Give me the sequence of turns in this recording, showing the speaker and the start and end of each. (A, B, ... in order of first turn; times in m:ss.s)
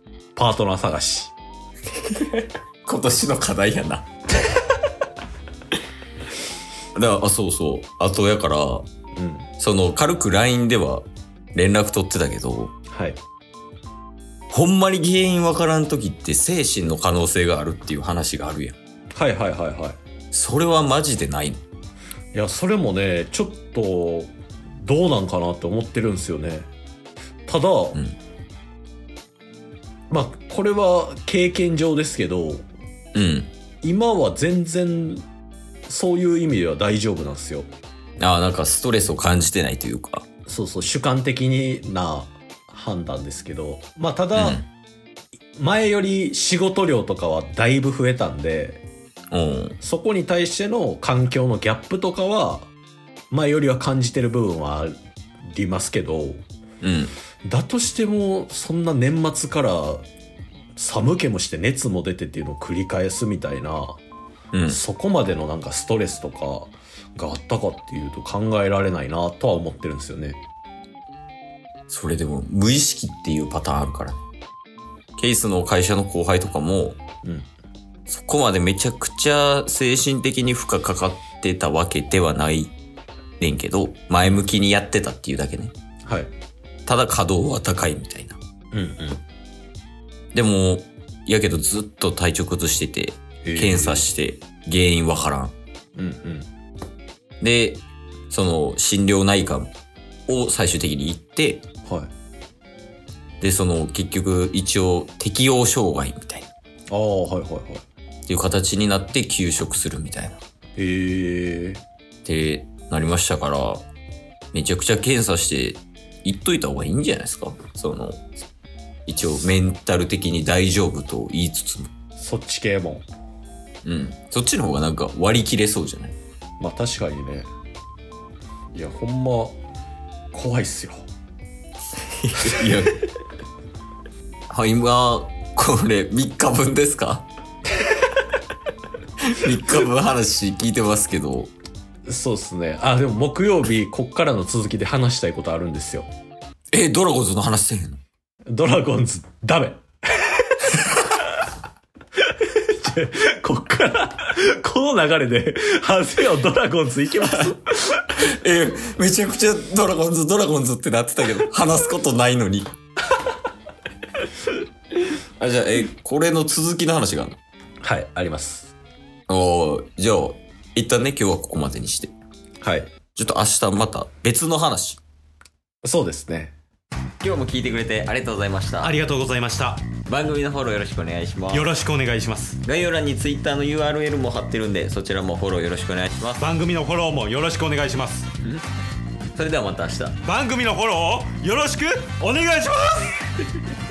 0:00.4-0:01.4 A
0:01.9-0:04.1 B
0:07.0-0:08.8 B
0:09.2-0:09.5 A
0:09.6-0:12.7 B
0:12.9-0:13.2 A
0:14.5-0:18.8 B
0:19.2-0:20.0 A
0:20.3-0:21.6 B
0:22.3-0:26.7 A
0:27.5-0:28.0 A
0:30.1-0:32.7 A
0:33.2-0:33.5 B
0:33.8-0:35.2 A
0:35.9-0:37.7 A
0:38.2-0:40.3 B
0:40.5-0:44.6 A
0:44.4-0:44.7 B
0:45.6-0:48.8 A
0:49.3-0:49.8 B
0:49.8-0:52.7 A
0:53.3-0:55.0 A
0:55.5-0:56.4 A
0:56.8-0:57.1 B
0:57.4-1:00.1 A
1:00.8-1:04.0 A
1:04.5-1:04.8 B
1:04.7-1:10.4 A
1:11.9-1:14.2 B
1:15.2-1:17.0 B
1:18.1-1:22.7 B
1:23.4-1:25.7 B
1:26.0-1:26.3 A
1:26.9-1:28.4 B
1:28.7-1:29.2 A
1:30.3-1:35.5 B
1:33.4-1:34.1 A
1:36.0-1:36.5 A
1:37.4-1:39.7 B
1:40.3-1:41.6 B
1:43.4-1:46.5 B
1:46.9-1:47.8 A
1:48.3-1:50.4 B
1:50.8-1:51.8 A
1:52.2-1:53.8 B
1:54.5-1:58.2 B
1:59.1-2:01.9 B
2:02.2-2:03.1 A
2:03.8-2:06.2 B
2:06.6-2:07.5 A
2:08.7-2:09.6 A
2:10.3-2:11.1 A
2:12.2-2:13.0 B
2:14.5-2:17.3 B
2:19.3-2:21.5 B
2:22.1-2:26.1 A
2:26.7-2:28.0 B
2:28.5-2:31.2 A
2:32.4-2:38.1 A
2:38.2-2:42.7 B
2:45.1-2:47.4 B
2:47.8-2:48.7 A
2:49.3-2:52.1 B
2:52.6-2:52.9 A
2:53.2-2:55.0 B
2:55.8-2:56.6 A
2:57.2-2:59.0 B
2:58.8-2:59.9 C
3:00.1-3:01.7 B
3:01.5-3:02.6 C
3:02.6-3:06.5 B
3:06.4-3:08.3 C
3:09.4-3:10.2 B
3:10.2-3:13.3 C